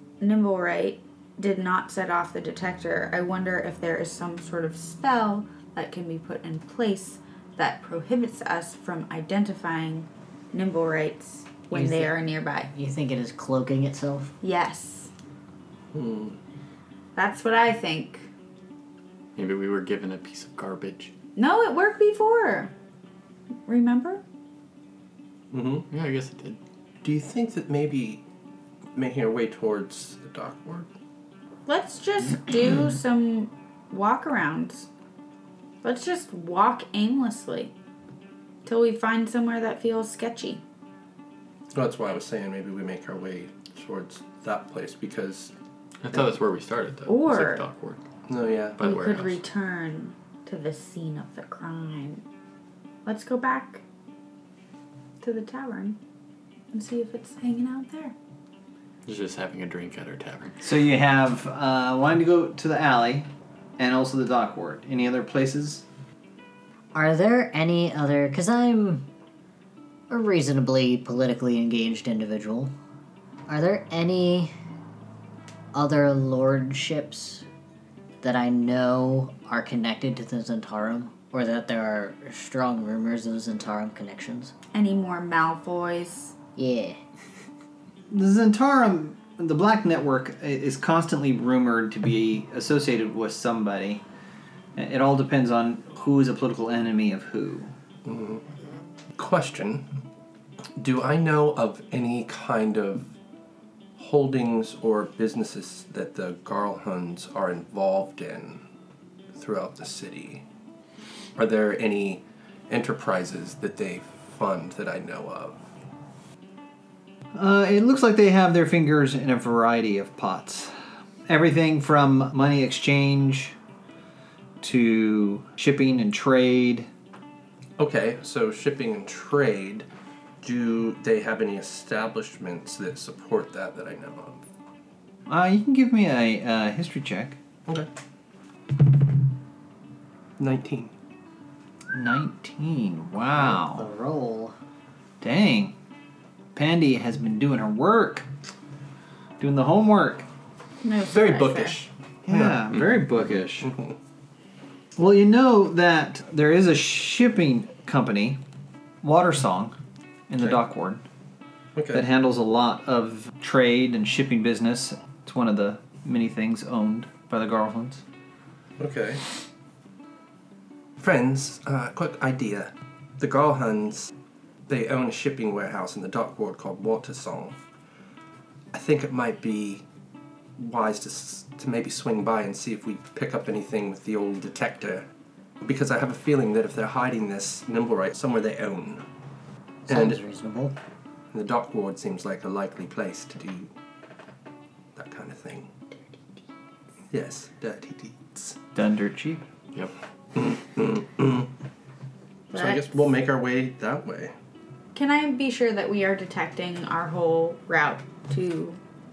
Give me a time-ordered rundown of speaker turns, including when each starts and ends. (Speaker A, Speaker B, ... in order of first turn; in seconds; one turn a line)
Speaker A: 0.2-12.7
Speaker B: 11.7-12.2
Speaker B: 12.7-14.3
Speaker A: 14.4-15.1
Speaker C: 15.9-16.4
Speaker A: 17.2-18.3
Speaker D: 19.4-21.1
Speaker A: 21.4-22.7
Speaker A: 23.7-24.2
Speaker C: 25.5-25.9
Speaker D: 25.9-26.6
Speaker C: 27.0-28.2
Speaker C: 28.9-30.9
Speaker A: 31.7-34.9
Speaker A: 35.8-37.7
Speaker A: 38.6-40.6
Speaker C: 41.7-45.5
Speaker D: 46.0-48.0
Speaker A: 47.1-47.6
Speaker C: 48.3-48.8
Speaker D: 48.8-49.4
Speaker A: 48.8-52.2
Speaker A: 53.0-53.8
Speaker A: 55.2-56.0
Speaker A: 56.7-58.1
Speaker D: 59.1-60.6
Speaker E: 60.6-63.3
Speaker E: 63.8-65.8
Speaker B: 66.9-69.1
Speaker B: 70.1-72.7
Speaker B: 73.5-74.5
Speaker B: 75.7-77.5
Speaker B: 78.2-84.5
Speaker A: 84.7-86.3
Speaker B: 86.6-87.0
Speaker E: 88.1-94.0
Speaker E: 94.8-97.7
Speaker C: 98.0-98.4
Speaker C: 99.2-99.9
Speaker C: 100.8-103.1
Speaker C: 104.0-108.6
Speaker C: 109.3-110.4
Speaker C: 111.4-115.6
Speaker E: 117.3-120.8
Speaker E: 121.3-123.5
Speaker E: 124.6-126.9
Speaker C: 127.8-129.9
Speaker C: 130.4-134.4
Speaker E: 135.3-137.4
Speaker C: 140.4-140.9
Speaker E: 141.9-143.9
Speaker B: 143.4-144.6
Speaker E: 145.2-145.8
Speaker E: 146.6-148.3
Speaker E: 149.4-150.3
Speaker A: 150.8-151.8
Speaker C: 151.1-152.6
Speaker E: 152.3-153.7
Speaker C: 153.6-153.9
Speaker E: 155.0-158.4
Speaker E: 159.0-159.8
Speaker E: 160.3-161.1
Speaker C: 161.8-162.1
Speaker E: 161.9-168.0
Speaker C: 168.8-169.2
Speaker C: 171.0-174.1
Speaker C: 174.7-177.6
Speaker C: 178.7-179.8
Speaker C: 180.6-185.1
Speaker C: 185.6-189.1
Speaker C: 189.9-190.2
Speaker B: 189.9-190.8
Speaker C: 191.3-193.7
Speaker C: 195.0-195.7
Speaker C: 197.1-198.6
Speaker E: 198.8-199.4
Speaker C: 200.3-201.5
Speaker C: 202.5-204.3
Speaker A: 202.5-202.9
Speaker A: 204.9-208.8